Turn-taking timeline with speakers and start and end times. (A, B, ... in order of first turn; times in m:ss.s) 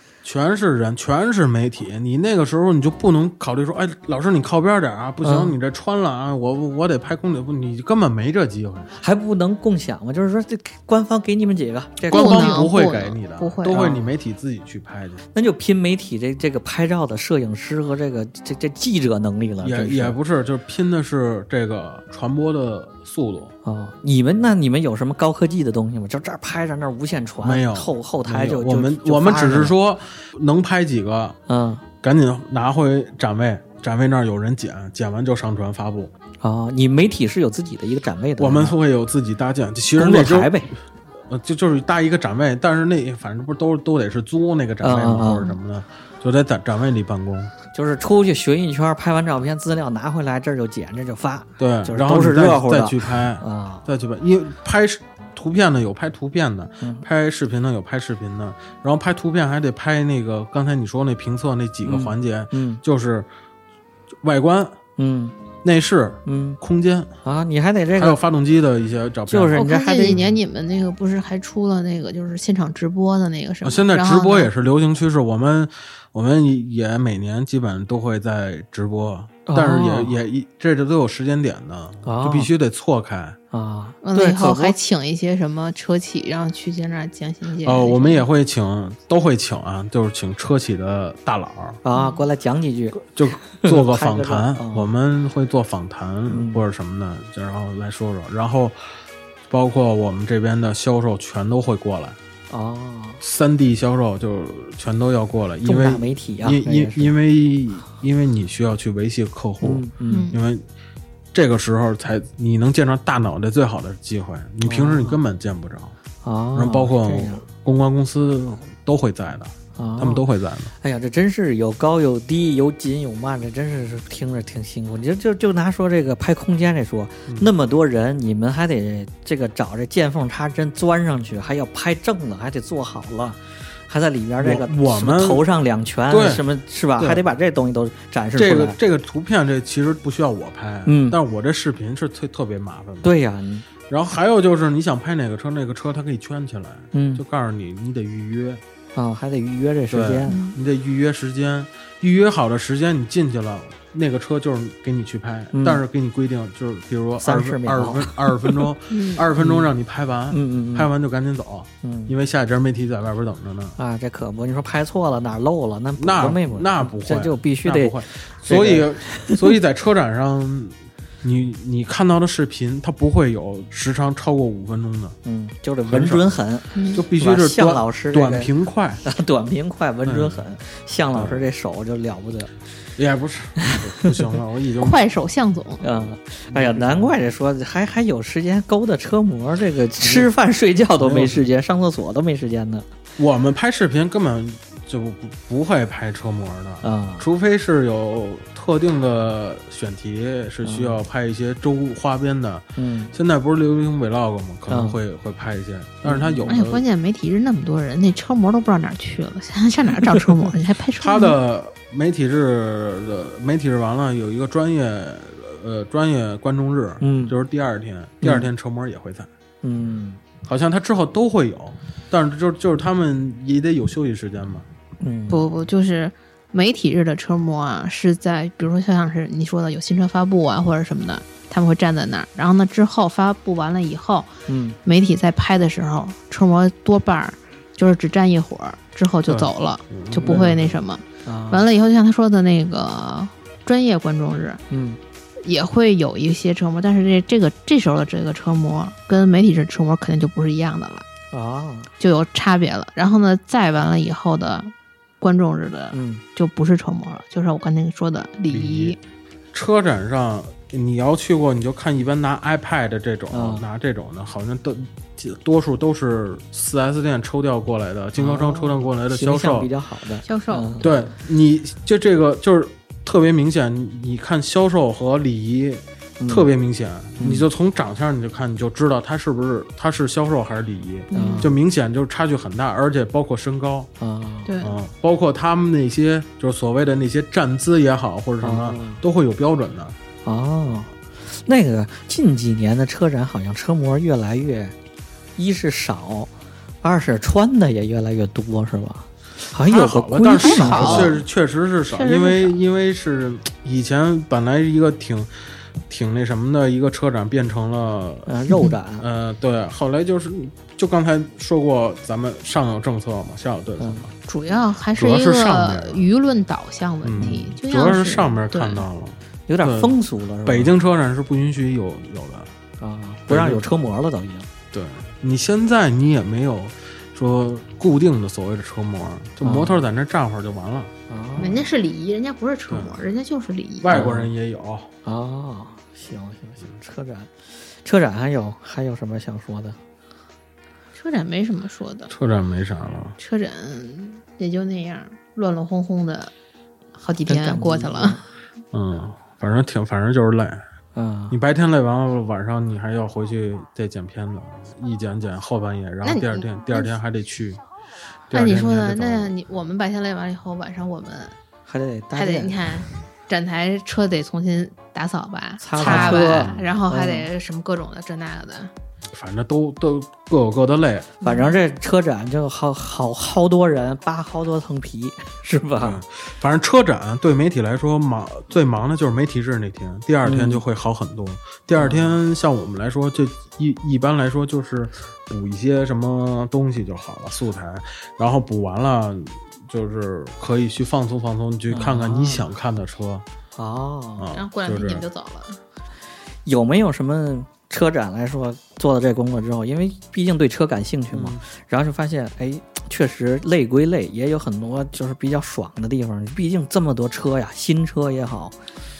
0:00.2-0:08.9 A
0:05.2-0:05.6 B
0:09.0-0:12.7 B
0:12.1-0:15.2 A
0:12.1-0:13.9 C
0:13.7-0:14.0 B
0:15.3-0:20.2 B
0:19.6-0:23.5 A
0:23.6-0:29.7 B
0:27.4-0:31.4 A
0:31.5-0:31.8 B
0:32.0-0:36.1 A
0:36.4-0:38.7 B
0:38.4-0:40.7 A
0:40.0-0:40.7 B
0:41.3-0:47.5 A
0:44.8-0:45.5 B
0:47.7-0:53.8 B
0:51.6-1:03.3 A
1:01.9-1:02.8 B
1:04.2-1:04.8 A
1:05.0-1:05.3 B
1:05.6-1:07.1 A
1:06.3-1:06.6 B
1:07.2-1:08.2 B
1:08.0-1:10.4 A
1:09.3-1:10.2 B
1:09.5-1:14.5 C
1:13.6-1:23.4 A
1:19.4-1:20.2 B
1:22.0-1:22.5 B
1:23.5-1:24.8 B
1:24.0-1:28.2 C
1:27.6-1:31.8 A
1:31.8-1:34.9 B
1:31.9-1:32.2 C
1:33.0-1:38.8 A
1:36.3-1:36.6 B
1:39.5-1:42.2 A
1:42.5-1:43.2 B
1:43.2-1:50.6 A
1:45.6-1:47.1 B
1:49.6-1:50.3 B
1:50.1-1:50.4 C
1:51.3-1:56.0 A
1:54.6-1:55.2 B
1:56.2-1:57.4 B
1:56.6-2:00.7 A
1:59.8-2:00.2 B
2:00.8-2:18.8 B
2:14.4-2:15.4 A
2:16.1-2:16.4 A
2:18.4-2:23.1 A
2:20.9-2:21.2 B
2:23.0-2:23.7 B
2:23.9-2:28.6 A
2:26.9-2:27.2 B
2:29.0-2:30.4 B
2:29.9-2:43.8 A
2:30.3-2:30.6 C
2:35.5-2:35.8 B
2:37.2-2:38.7 B
2:38.9-2:39.2 C
2:39.4-2:39.7 B
2:40.3-2:40.9 B
2:41.8-2:42.1 B
2:43.8-2:49.6 B
2:46.0-2:55.2 A
2:55.2-2:58.5 B
2:55.9-2:56.4 A
2:56.7-2:57.0 C
2:56.9-2:59.0 A
2:59.0-3:02.5 B
3:00.0-3:00.4 A
3:01.1-3:01.5 A
3:03.0-3:05.0 A
3:03.6-3:04.1 B
3:04.8-3:05.8 C
3:05.8-3:12.9 B
3:06.5-3:07.1 A
3:10.0-3:10.3 A
3:11.0-3:11.4 A
3:13.2-3:26.8 A
3:16.8-3:17.3 B
3:20.6-3:21.0 B
3:22.8-3:23.1 B
3:24.7-3:25.0 B
3:26.0-3:26.6 B
3:26.5-3:31.4 C
3:31.0-3:39.3 A
3:37.0-3:37.3 B
3:38.2-3:38.5 B
3:39.6-3:40.2 B
3:40.4-3:44.7 A
3:45.0-3:45.4 B
3:45.3-4:04.6 C
3:54.5-3:54.8 B
3:59.3-4:00.8 A
4:01.2-4:01.6 B
4:04.7-4:05.0 B
4:05.4-4:11.1 C
4:11.3-4:11.9 B
4:12.0-4:19.0 C
4:15.9-4:16.2 B
4:18.5-4:19.0 A
4:19.5-4:29.7 A
4:23.3-4:23.6 B
4:28.2-4:31.0 B
4:30.2-4:30.9 C
4:30.8-4:43.9 A
4:36.2-4:36.5 B
4:37.2-4:37.5 B
4:41.1-4:41.5 C
4:41.1-4:41.5 B
4:44.0-4:44.5 B
4:44.4-4:44.7 C
4:44.6-4:50.0 A
4:48.4-4:49.0 B
4:50.2-4:54.7 B
4:55.4-4:56.3 B
4:56.8-5:01.2 B
4:59.6-5:05.3 A
5:00.4-5:01.2 C
5:01.9-5:02.6 C
5:05.9-5:08.3 A
5:08.3-5:09.1 B
5:09.0-5:14.1 A
5:13.8-5:14.1 B
5:14.3-5:18.9 C
5:14.9-5:16.1 A
5:17.0-5:19.9 A
5:19.5-5:20.7 B
5:20.4-5:22.5 A
5:22.8-5:24.5 B
5:23.3-5:23.6 A
5:24.7-5:30.9 A
5:29.4-5:29.8 B
5:31.1-5:31.7 B
5:31.4-5:34.1 C
5:33.8-5:34.9 A
5:33.9-5:34.3 B
5:35.0-5:39.8 B
5:40.9-5:42.1 C
5:42.1-5:43.2 A
5:43.2-5:46.3 C
5:47.0-5:48.2 C
5:47.3-5:48.2 B
5:48.7-5:50.6 A
5:51.0-5:51.4 B
5:51.3-5:57.6 A
5:56.0-5:57.0 C
5:58.3-5:59.4 A
5:58.3-6:01.4 C
6:01.7-6:02.6 B
6:02.1-6:08.7 C
6:05.6-6:07.3 B
6:05.8-6:06.7 A
6:09.1-6:11.1 A
6:11.2-6:11.6 C
6:11.2-6:16.0 B
6:15.8-6:33.2 A
6:20.2-6:20.6 B
6:21.8-6:22.2 B
6:31.7-6:32.4 B
6:33.6-6:34.3 B
6:34.2-6:35.1 A
6:34.3-6:35.6 C
6:36.4-6:48.6 B
6:41.1-6:41.4 A